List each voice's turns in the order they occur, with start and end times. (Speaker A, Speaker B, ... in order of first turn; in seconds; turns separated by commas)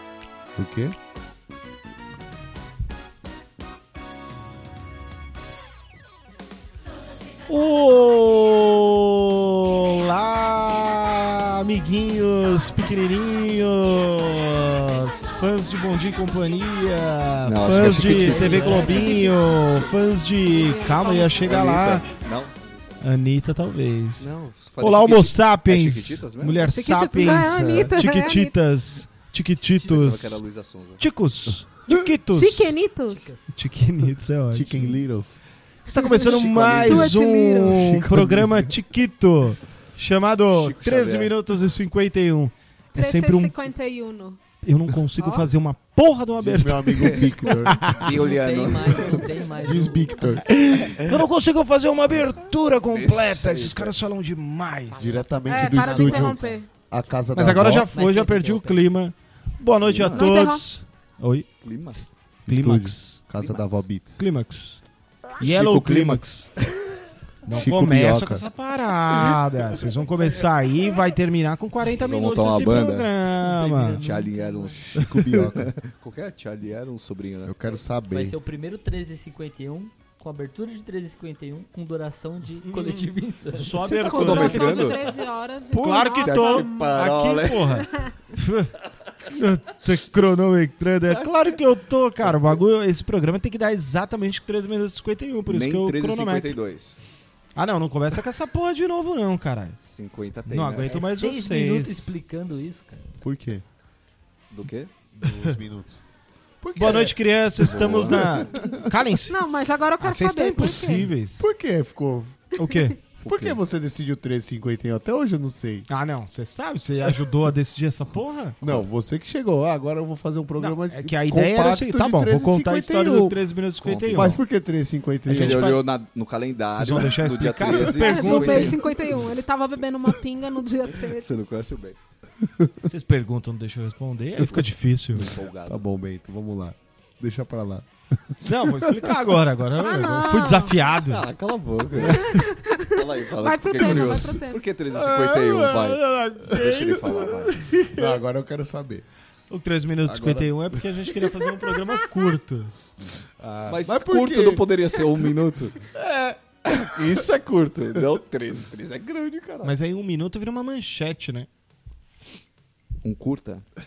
Speaker A: 0.6-0.9, Speaker B: 7.5-22.1, Speaker C: 17.4-19.2, Speaker D: 17.9-19.3, Speaker E: 18.4-19.6, Speaker E: 20.5-21.6, Speaker C: 21.4-22.8, Speaker B: 23.0-30.4, Speaker C: 24.2-26.8, Speaker E: 26.6-28.6, Speaker A: 27.6-28.0, Speaker C: 29.8-31.0, Speaker B: 31.0-32.8, Speaker E: 32.3-33.3, Speaker D: 33.1-33.6, Speaker B: 33.5-35.0, Speaker A: 34.5-35.4, Speaker B: 35.9-43.5, Speaker E: 35.9-37.8, Speaker C: 36.2-37.1, Speaker A: 37.7-38.8, Speaker C: 40.5-41.4, Speaker E: 43.0-44.4, Speaker B: 44.6-48.1, Speaker E: 45.2-45.5, Speaker A: 46.4-48.3, Speaker C: 47.9-49.2, Speaker D: 48.1-50.2, Speaker A: 48.9-50.6, Speaker B: 50.5-55.0, Speaker C: 52.9-54.0, Speaker C: 54.9-55.3, Speaker A: 55.0-57.9, Speaker E: 55.5-56.7, Speaker D: 55.6-56.6, Speaker B: 57.3-63.2, Speaker D: 57.9-58.9, Speaker C: 59.8-60.3, Speaker E: 60.0-60.6, Speaker C: 61.6-62.0, Speaker A: 62.5-64.2, Speaker C: 63.4-63.9, Speaker B: 64.2-64.8, Speaker B: 65.4-66.5, Speaker C: 65.4-66.9, Speaker B: 67.5-74.0, Speaker A: 67.5-68.5, Speaker C: 71.9-73.1, Speaker D: 73.3-74.9, Speaker C: 74.0-77.6, Speaker A: 75.0-75.7, Speaker B: 75.0-75.4, Speaker A: 77.4-78.4, Speaker D: 78.1-84.0, Speaker B: 82.6-85.1, Speaker E: 83.8-88.1, Speaker C: 84.1-85.1, Speaker B: 85.7-88.8, Speaker C: 85.8-87.8, Speaker B: 89.3-96.6, Speaker C: 91.1-91.6, Speaker C: 95.5-97.0, Speaker B: 97.5-99.8, Speaker C: 99.8-101.0, Speaker B: 100.5-102.1, Speaker D: 100.8-103.1, Speaker A: 103.2-103.6, Speaker C: 104.5-104.9, Speaker A: 105.1-106.0, Speaker C: 106.6-108.4, Speaker B: 106.8-109.4, Speaker A: 107.8-109.0, Speaker E: 109.3-111.1, Speaker B: 110.0-111.4, Speaker A: 111.4-112.5, Speaker B: 112.6-113.0, Speaker C: 113.2-113.6, Speaker A: 113.3-115.9, Speaker B: 115.9-118.6, Speaker A: 118.6-123.4, Speaker B: 120.6-124.4, Speaker C: 123.8-124.4, Speaker A: 124.1-125.7, Speaker B: 125.3-125.8, Speaker C: 125.3-129.4, Speaker B: 126.7-128.9, Speaker E: 127.7-131.3, Speaker C: 130.9-132.0, Speaker B: 132.9-135.3, Speaker C: 134.4-135.8, Speaker A: 135.7-138.8, Speaker B: 138.4-141.3, Speaker E: 139.8-140.9, Speaker C: 140.9-142.2, Speaker B: 141.9-142.4, Speaker E: 142.0-144.7, Speaker C: 143.0-147.7, Speaker B: 144.9-148.0, Speaker A: 147.9-149.1, Speaker B: 149.5-152.7, Speaker A: 150.0-150.8, Speaker A: 153.2-154.7, Speaker C: 153.7-155.8, Speaker A: 155.8-156.4, Speaker C: 156.7-159.8, Speaker A: 157.0-157.2, Speaker B: 159.6-161.5, Speaker C: 163.0-163.6